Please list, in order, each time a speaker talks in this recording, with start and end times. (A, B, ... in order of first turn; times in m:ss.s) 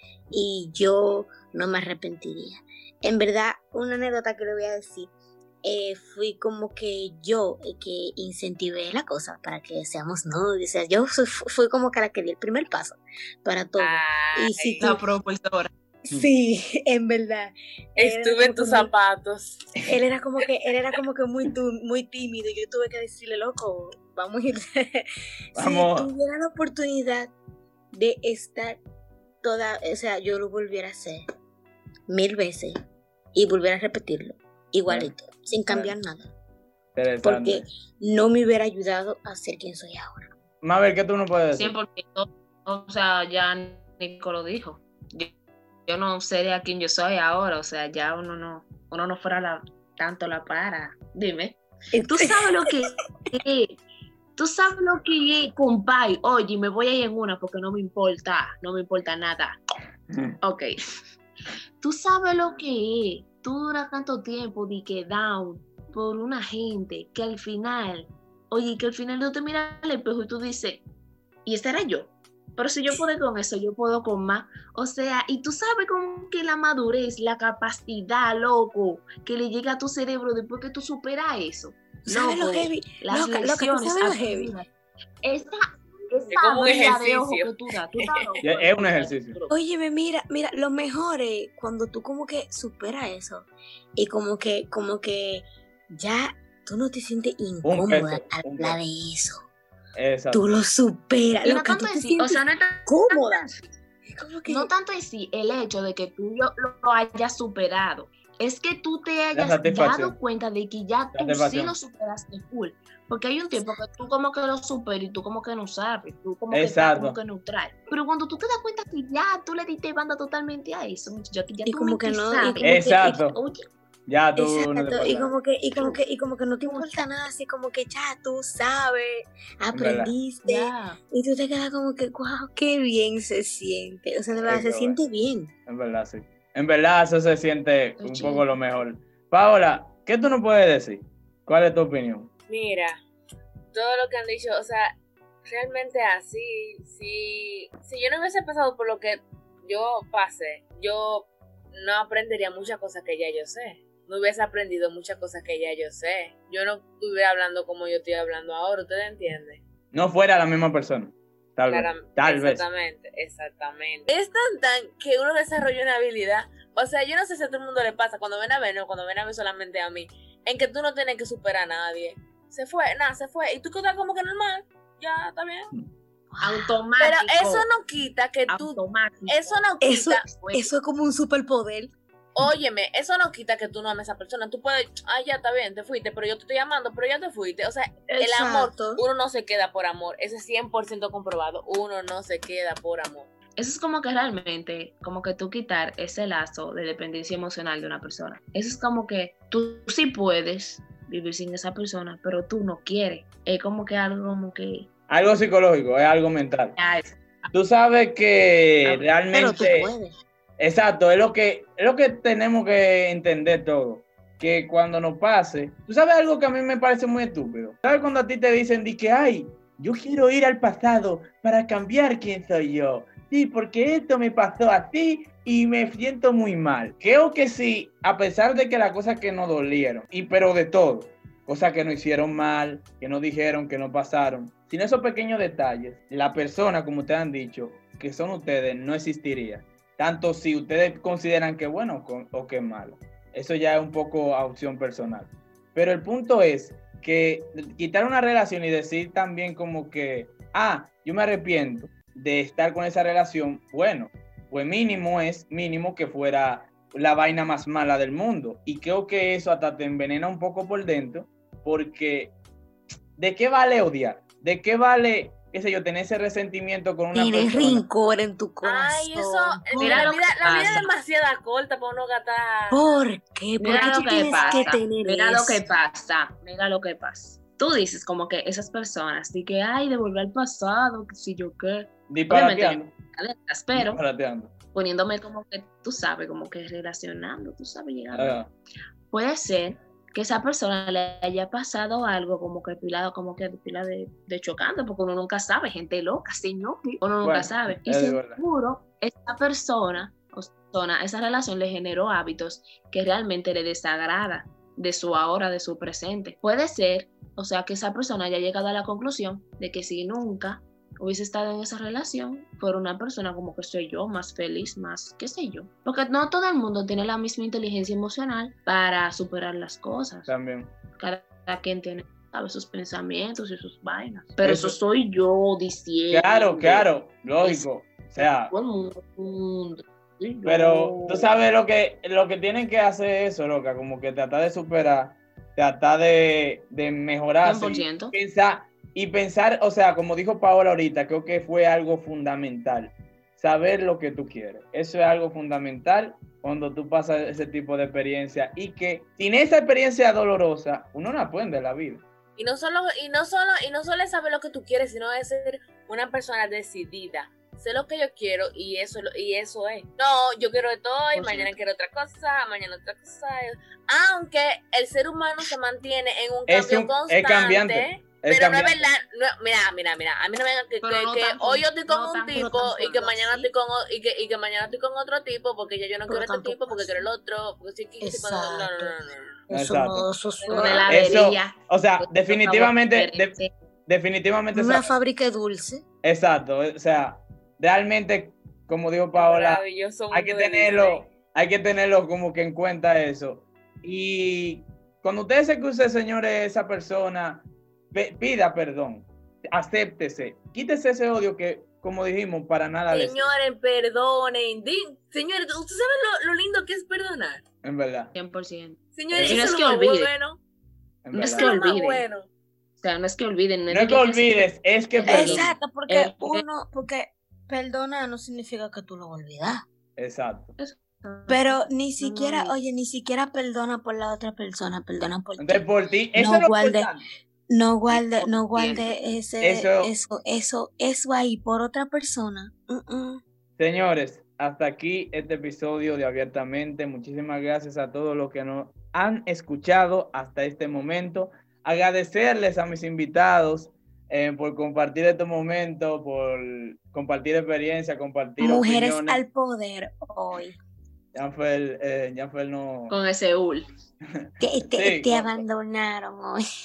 0:00.3-0:05.1 A
0:05.6-0:15.0 A
0:13.8-0:14.8 B
0:14.8-0:15.7 C
0:16.0-0:18.9 A
0:18.0-0:19.6 B
0:19.8-0:27.3 A
0:25.5-0:26.1 D
0:27.9-0:28.8 A
0:29.4-0:31.2 A
0:32.1-0:32.7 A
0:33.3-0:36.3 A
0:34.9-0:35.1 D
0:35.7-0:36.0 D
0:37.0-0:37.6 D
0:37.2-0:40.3 A
0:40.6-0:41.7 D
0:41.6-0:45.3 C
0:45.9-0:53.8 C
0:51.9-0:52.3 A
0:54.4-0:59.6 C
1:00.4-1:00.8 C
1:01.8-1:10.8 C
1:11.4-1:24.7 C
1:22.0-1:24.5 A
1:25.2-1:29.5 C
1:26.3-1:28.4 B
1:28.4-1:29.4 D
1:29.5-1:39.4 A
1:37.6-1:38.8 D
1:40.0-1:40.4 D
1:40.3-1:43.5 A
1:41.4-1:43.6 C
1:44.0-1:44.7 A
1:44.5-2:03.6 C
1:49.3-1:50.1 D
1:51.1-1:51.8 D
1:53.5-1:53.8 A
1:56.5-1:57.2 D
2:01.6-2:03.3 A
2:02.6-2:03.4 D
2:04.1-2:05.3 D
2:04.3-2:15.5 A
2:06.6-2:07.0 C
2:09.7-2:10.1 D
2:10.4-2:11.0 C
2:14.4-2:15.0 D
2:15.7-2:22.3 D
2:18.0-2:18.4 C
2:22.5-2:23.0 B
2:23.7-2:39.6 B
2:39.9-2:42.6 D
2:41.7-2:55.7 B
2:56.3-2:56.7 A
2:56.4-2:57.7 C
2:57.0-3:00.2 B
2:58.5-3:00.7 C
2:59.8-3:01.9 A
3:02.4-3:13.3 B
3:08.1-3:09.0 A
3:13.6-3:24.9 C
3:25.1-3:26.8 D
3:26.8-3:27.5 C
3:27.5-3:29.9 D
3:28.8-3:29.7 C
3:29.3-3:30.1 A
3:30.6-4:22.3 D
4:23.2-4:27.8 D
4:27.1-4:30.9 A
4:28.6-4:32.8 B
4:29.8-4:30.9 C
4:32.7-4:35.8 A
4:33.6-4:44.0 C
4:33.7-4:34.6 B
4:42.1-4:42.9 D
4:43.7-4:44.5 D
4:44.7-4:48.4 C
4:48.1-4:48.5 D
4:49.1-5:20.3 C
4:57.2-4:58.4 D
5:20.3-5:20.7 D
5:21.0-5:26.9 C
5:24.4-5:24.8 D
5:26.1-5:28.5 D
5:27.4-5:31.4 C
5:30.4-5:52.0 D
5:37.4-5:38.1 C
5:52.4-6:19.4 B
6:01.1-6:01.6 C
6:06.5-6:08.9 D
6:10.8-6:13.5 C
6:16.1-6:17.0 A
6:18.0-6:18.9 A
6:19.5-6:21.1 A
6:19.5-6:20.1 D
6:20.4-6:21.1 B
6:20.5-6:23.5 C
6:20.9-6:23.4 D
6:23.9-6:24.9 D
6:24.5-6:25.8 A
6:26.0-6:43.3 D
6:29.1-6:31.1 B
6:42.9-6:47.4 B
6:47.6-6:48.1 D
6:48.1-6:50.1 C
6:49.0-6:50.4 B
6:49.1-6:49.4 D
6:51.0-6:51.5 D
6:51.1-6:52.0 C
6:51.1-6:52.3 B
6:52.8-6:56.4 C
6:53.7-6:55.5 D
6:55.0-6:59.6 A
7:00.0-7:00.6 D
7:00.6-7:02.5 C
7:01.3-7:06.9 A
7:05.4-7:07.0 D
7:07.5-7:13.2 A
7:07.9-7:09.0 C
7:09.4-7:09.9 D
7:13.6-7:29.2 D
7:28.4-7:30.6 A
7:31.1-7:32.9 D
7:32.9-7:33.7 C
7:34.2-7:35.4 D
7:34.4-7:36.4 A